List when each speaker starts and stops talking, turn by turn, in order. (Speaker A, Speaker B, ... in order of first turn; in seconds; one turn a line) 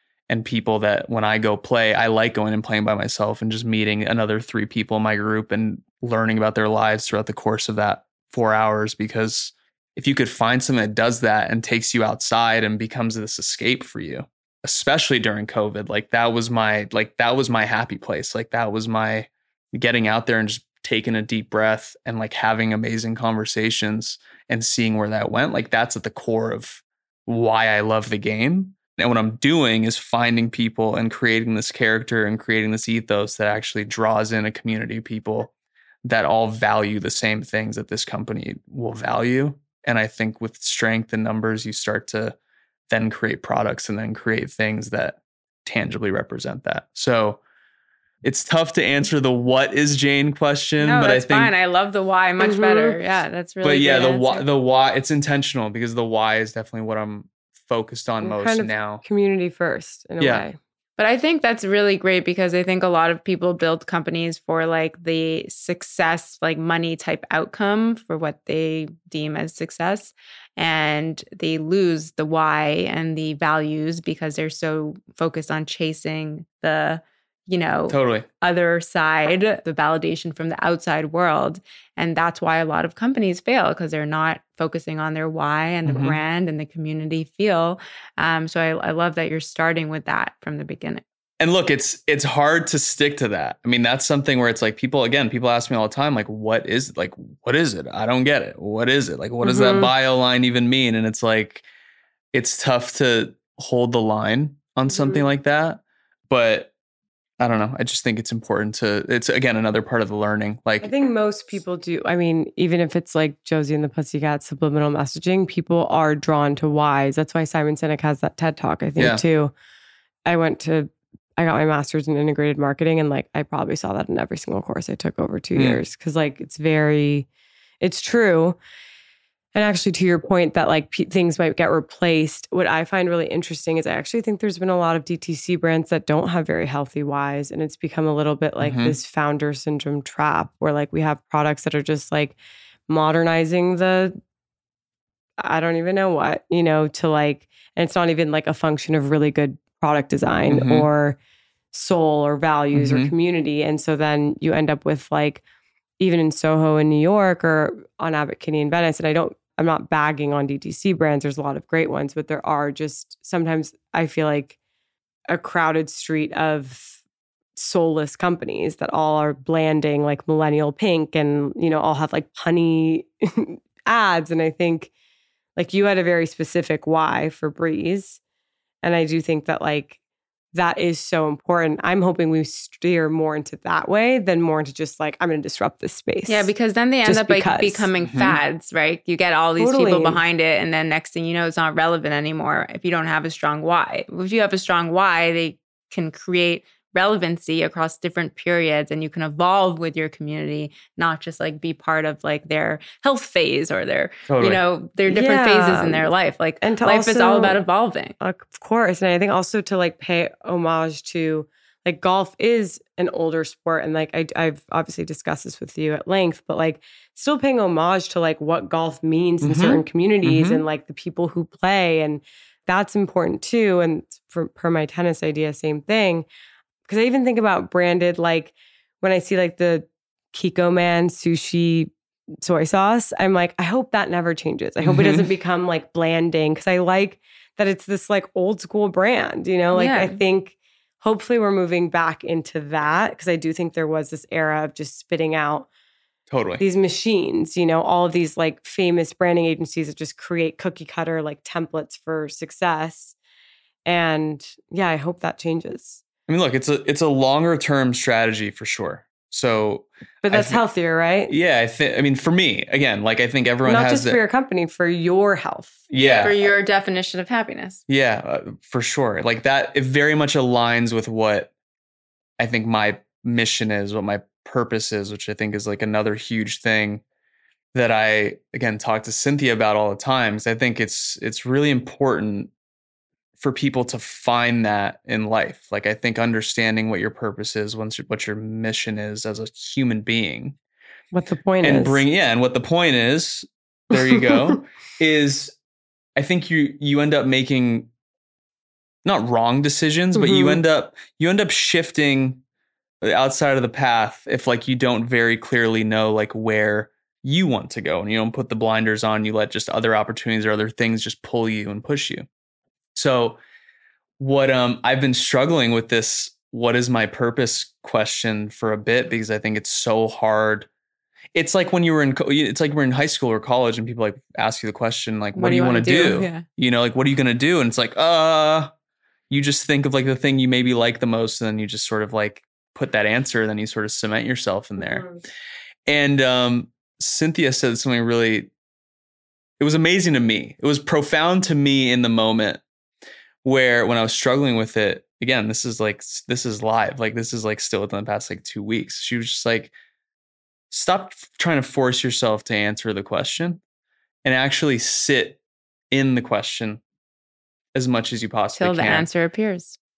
Speaker A: 0.3-35.5
Speaker A: 36.0-42.4
Speaker A: 42.9-47.4
Speaker A: 48.2-51.5
Speaker B: 50.8-54.5
Speaker C: 52.4-53.0
Speaker A: 53.6-59.0
Speaker C: 58.2-60.6
Speaker A: 60.2-60.5
Speaker B: 61.0-91.0
Speaker A: 77.9-78.3
Speaker A: 85.8-86.2
Speaker A: 91.4-101.6
Speaker C: 99.4-99.9
Speaker A: 102.3-106.7
Speaker C: 104.9-105.3
Speaker A: 107.4-110.9
Speaker C: 110.8-119.5
Speaker A: 119.0-119.2
Speaker C: 120.2-127.3
Speaker A: 125.5-125.8
Speaker C: 127.8-128.6
Speaker C: 129.5-142.4
Speaker A: 138.6-138.9
Speaker C: 142.9-144.2
Speaker C: 145.4-151.2
Speaker A: 150.5-150.9
Speaker C: 151.7-155.4
Speaker A: 152.7-153.1
Speaker C: 156.0-164.6
Speaker C: 165.3-167.0
Speaker C: 167.6-174.9
Speaker C: 175.6-178.2
Speaker C: 178.8-180.0
Speaker C: 180.5-186.5
Speaker B: 186.3-208.1
Speaker C: 187.0-187.9
Speaker A: 188.0-188.4
Speaker C: 189.6-190.2
Speaker A: 204.3-204.6
Speaker C: 205.1-207.6
Speaker C: 208.2-226.3
Speaker A: 219.4-220.6
Speaker C: 226.9-245.7
Speaker A: 234.8-235.3
Speaker B: 239.7-240.2
Speaker A: 246.3-246.6
Speaker C: 246.6-253.1
Speaker C: 253.8-256.0
Speaker A: 256.3-260.6
Speaker C: 260.2-261.3
Speaker A: 261.3-264.2
Speaker C: 263.6-265.8
Speaker A: 265.9-266.5
Speaker B: 266.2-267.8
Speaker A: 267.9-271.5
Speaker A: 272.4-277.0
Speaker A: 277.7-282.5
Speaker A: 283.4-290.6
Speaker C: 291.1-292.0
Speaker A: 291.6-295.5
Speaker C: 293.9-294.6
Speaker A: 296.1-297.9
Speaker A: 299.0-302.4
Speaker C: 300.1-300.6
Speaker A: 303.0-312.2
Speaker A: 312.9-313.4
Speaker A: 314.2-320.7
Speaker A: 321.3-328.7
Speaker B: 325.3-326.4
Speaker A: 329.3-335.1
Speaker C: 334.8-335.2
Speaker A: 335.9-338.5
Speaker A: 339.6-342.6
Speaker A: 343.4-349.7
Speaker A: 350.7-353.6
Speaker A: 354.2-355.4
Speaker A: 355.9-356.8
Speaker A: 357.7-359.1
Speaker B: 358.6-359.8